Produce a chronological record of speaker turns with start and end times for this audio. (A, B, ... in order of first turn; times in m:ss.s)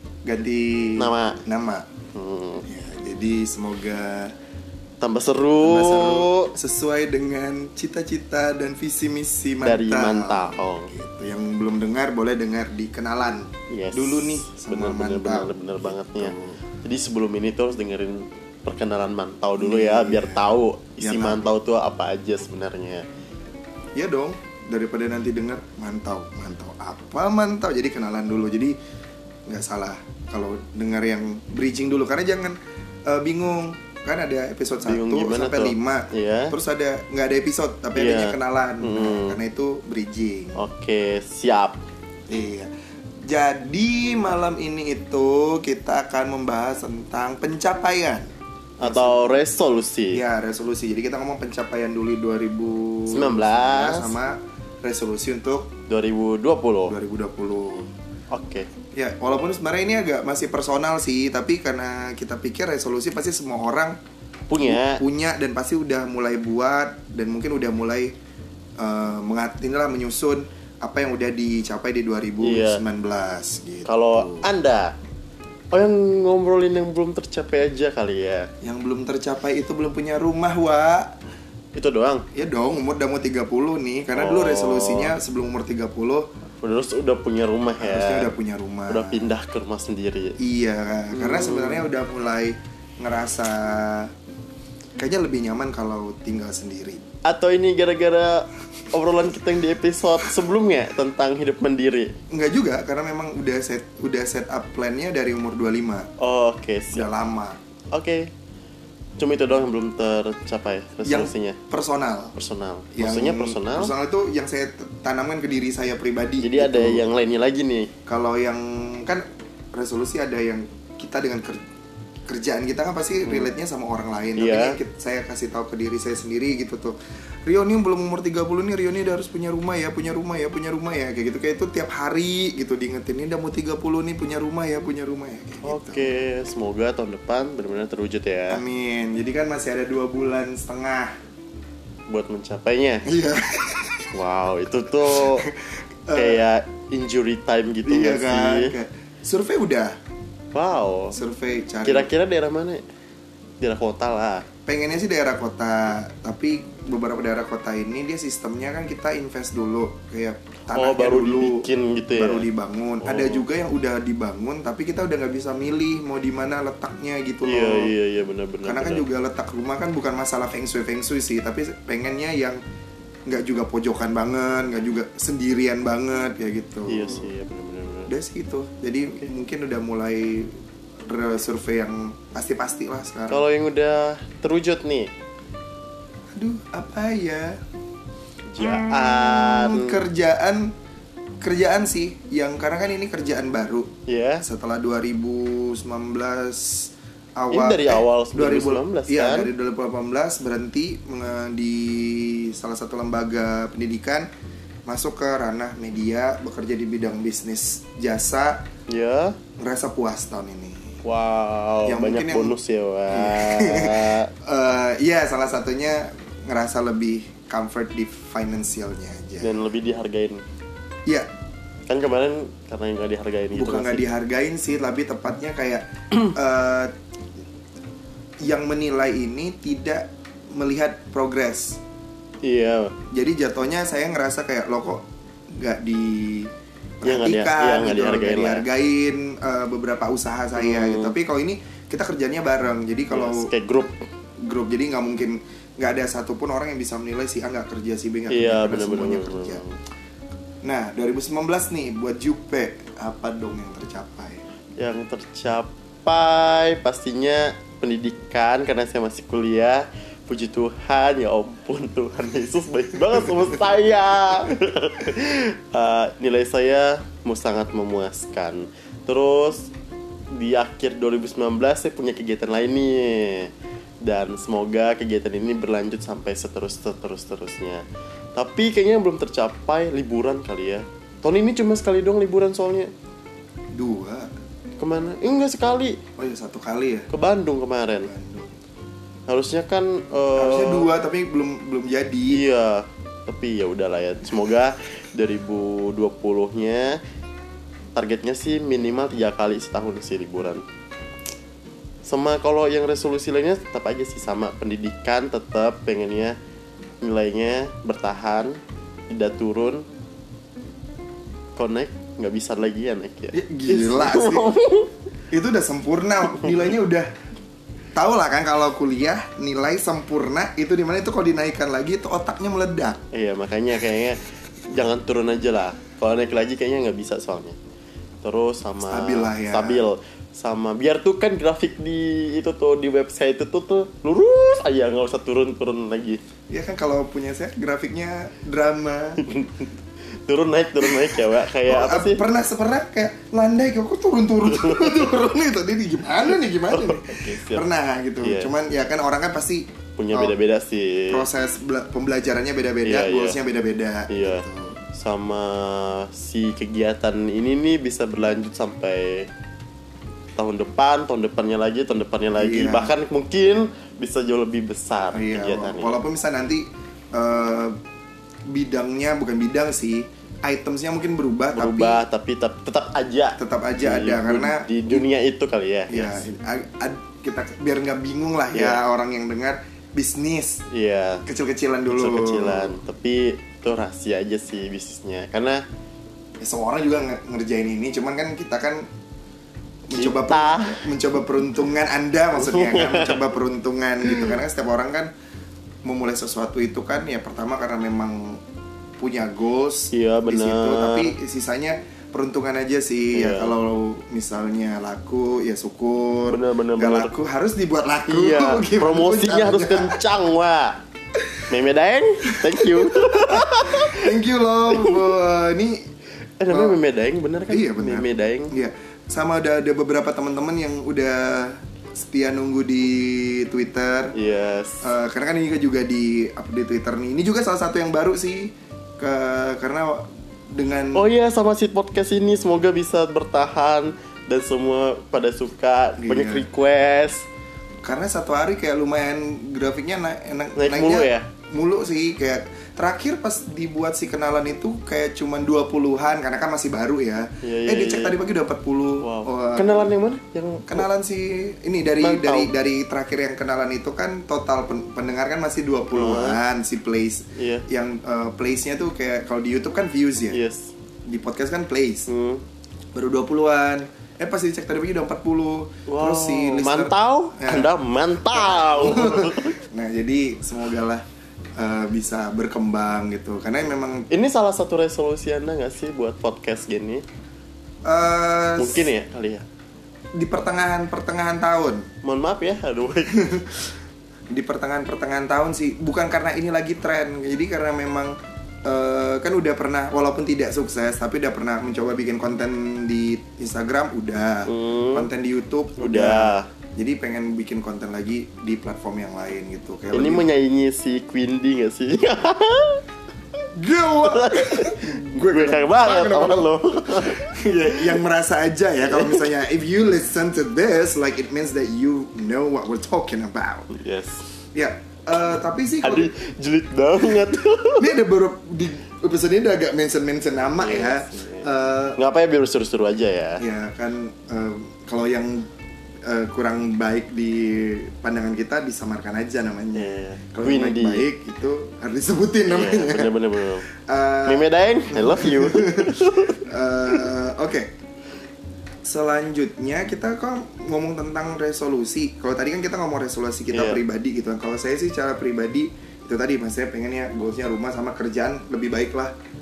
0:00.2-0:01.9 A
0:01.0-0:01.4 B
0:02.1-0:02.6 B
0:02.6-0:04.3 A
0:05.0-0:06.5 B
0:05.6-0:16.6 A
0:09.6-0:10.9 B
0:13.7-0:23.0 B
0:19.6-0:20.4 A
0:21.0-0:21.5 A
0:23.9-0:28.8 A
0:29.5-0:40.6 A
0:34.8-0:36.5 B
0:38.0-0:39.4 B
0:40.6-0:41.8 B
0:42.3-0:42.7 A
0:43.2-0:48.3 A
0:48.8-0:50.2 B
0:48.8-0:49.2 A
0:50.1-0:55.7 A
0:53.1-0:54.1 B
0:55.9-0:56.9 B
0:56.8-0:57.9 A
0:58.3-0:58.7 B
0:58.9-1:04.0 A
1:04.5-1:05.0 B
1:04.6-1:08.1 A
1:08.8-1:14.5 A
1:12.4-1:12.8 B
1:13.8-1:14.9 B
1:15.7-1:18.5 B
1:18.6-1:21.2 A
1:21.7-1:22.2 B
1:22.3-1:26.3 A
1:24.1-1:25.2 B
1:26.6-1:28.3 B
1:27.8-1:29.3 A
1:28.9-1:30.4 B
1:30.4-1:34.1 A
1:31.1-1:31.9 B
1:35.0-1:37.0 A
1:37.2-1:42.1 B
1:42.3-1:46.1 A
1:46.2-1:47.1 B
1:46.9-1:47.6 A
1:47.9-1:48.3 B
1:49.2-1:51.6 B
1:51.0-1:52.3 A
1:52.3-1:53.9 B
1:52.9-1:57.0 A
1:56.4-1:57.9 B
1:58.0-2:01.6 A
2:02.3-2:16.1 A
2:03.2-2:03.5 B
2:04.4-2:04.8 B
2:15.6-2:18.6 B
2:18.5-2:21.1 A
2:22.1-2:23.0 B
2:23.0-2:24.1 A
2:24.1-2:25.4 B
2:25.0-2:26.4 A
2:26.1-2:28.7 B
2:27.8-2:30.0 A
2:30.5-2:31.2 B
2:31.1-2:32.1 A
2:31.8-2:32.8 B
2:33.6-2:34.4 B
2:34.6-2:47.9 A
2:40.7-2:42.5 B
2:43.0-2:43.4 B
2:47.4-2:49.1 B
2:48.6-2:52.6 A
2:53.3-2:57.3 A
2:56.9-2:58.1 B
2:58.1-3:00.5 A
3:01.1-3:03.4 A
3:03.3-3:05.1 B
3:06.4-3:07.6 A
3:08.5-3:10.0 B
3:08.6-3:10.7 A
3:11.4-3:13.9 A
3:14.1-3:14.4 B
3:14.4-3:24.3 A
3:17.5-3:19.5 B
3:24.9-3:28.6 A
3:28.9-3:29.4 B
3:29.6-3:30.9 A
3:31.0-3:34.3 B
3:31.8-3:32.6 A
3:33.1-3:39.6 A
3:39.4-3:40.4 B
3:41.9-3:44.0 B
3:43.5-3:46.9 A
3:48.4-3:51.8 A
3:52.4-3:52.9 B
3:53.1-4:03.5 A
3:57.0-3:58.6 B
4:00.6-4:01.1 B
4:03.1-4:04.0 B
4:04.4-4:09.6 A
4:08.3-4:09.8 B
4:10.6-4:14.4 A
4:14.8-4:29.7 B
4:30.3-4:33.5 B
4:34.0-4:37.8 B
4:38.4-4:42.9 B
4:43.7-4:44.3 A
4:44.8-4:46.0 B
4:46.2-4:47.1 A
4:47.1-4:48.1 B
4:48.0-4:48.5 A
4:49.3-4:50.9 B
4:50.3-4:52.4 A
4:52.3-4:57.0 B
4:57.9-5:00.6 B
5:02.0-5:06.4 B
5:07.0-5:08.6 B
5:09.1-5:09.8 B
5:11.6-5:14.9 B
5:13.3-5:14.5 A
5:15.3-5:17.1 A
5:17.9-5:23.0 A
5:23.1-5:27.6 B
5:28.2-5:36.2 B
5:28.8-5:29.9 A
5:36.5-5:39.2 A
5:39.2-5:39.7 B
5:40.2-5:42.2 B
5:40.8-5:50.4 A
5:44.5-5:45.1 B
5:46.3-5:47.6 B
5:48.2-5:48.5 B
5:50.0-5:51.2 B
5:51.1-5:54.8 A
5:52.8-5:53.4 B
5:54.1-5:59.3 B
6:00.4-6:06.0 B
6:02.3-6:02.9 A
6:05.1-6:07.8 A
6:08.5-6:12.0 A
6:11.5-6:16.2 B
6:13.4-6:15.0 A
6:15.9-6:20.6 A
6:18.5-6:18.8 B
6:20.7-6:21.2 B
6:21.2-6:22.8 A
6:21.9-6:25.6 B
6:26.4-6:28.8 A
6:29.9-6:35.1 A
6:29.9-6:30.9 B
6:32.3-6:33.3 B
6:34.0-6:34.4 B
6:35.8-6:38.4 A
6:39.0-6:50.0 A
6:39.9-6:41.1 B
6:43.1-6:43.5 B
6:46.3-6:47.1 B
6:48.1-6:50.8 B
6:51.5-6:54.1 B
6:52.3-6:55.8 A
6:54.7-6:55.1 B
6:56.4-6:58.5 B
6:56.5-6:56.8 A
6:57.5-7:04.1 A
7:04.1-7:04.9 B
7:04.8-7:11.0 A
7:10.9-7:17.2 B
7:16.0-7:16.5 A
7:17.8-7:29.9 A
7:20.6-7:21.3 B
7:27.4-7:28.2 B
7:29.0-7:30.9 B
7:30.7-7:40.4 A
7:32.0-7:32.5 B
7:35.9-7:36.4 B
7:37.3-7:37.6 B
7:40.3-7:40.7 B
7:41.0-7:42.1 A
7:42.1-7:42.4 B
7:42.9-7:47.7 A
7:45.9-7:49.6 B
7:48.3-7:51.0 A
7:51.6-7:54.1 A
7:54.1-7:57.0 B
7:57.8-7:58.9 A
7:58.6-7:59.4 B
8:00.2-8:01.8 A
8:02.0-8:03.2 B
8:03.0-8:03.6 A
8:04.3-8:20.3 A
8:14.4-8:15.1 B
8:15.8-8:16.5 B
8:19.9-8:22.8 B
8:23.6-8:33.7 A
8:24.0-8:27.9 B
8:28.8-8:29.3 B
8:33.7-8:34.2 B
8:34.5-8:36.1 A
8:35.8-8:38.0 B
8:37.8-8:42.0 A
8:40.6-8:43.4 B
8:43.4-8:45.5 A
8:46.0-8:53.2 A
8:49.7-8:51.1 B
8:52.4-8:53.6 B
8:53.8-8:57.7 A
8:54.2-8:56.4 B
8:58.8-9:09.1 A
9:03.5-9:03.8 B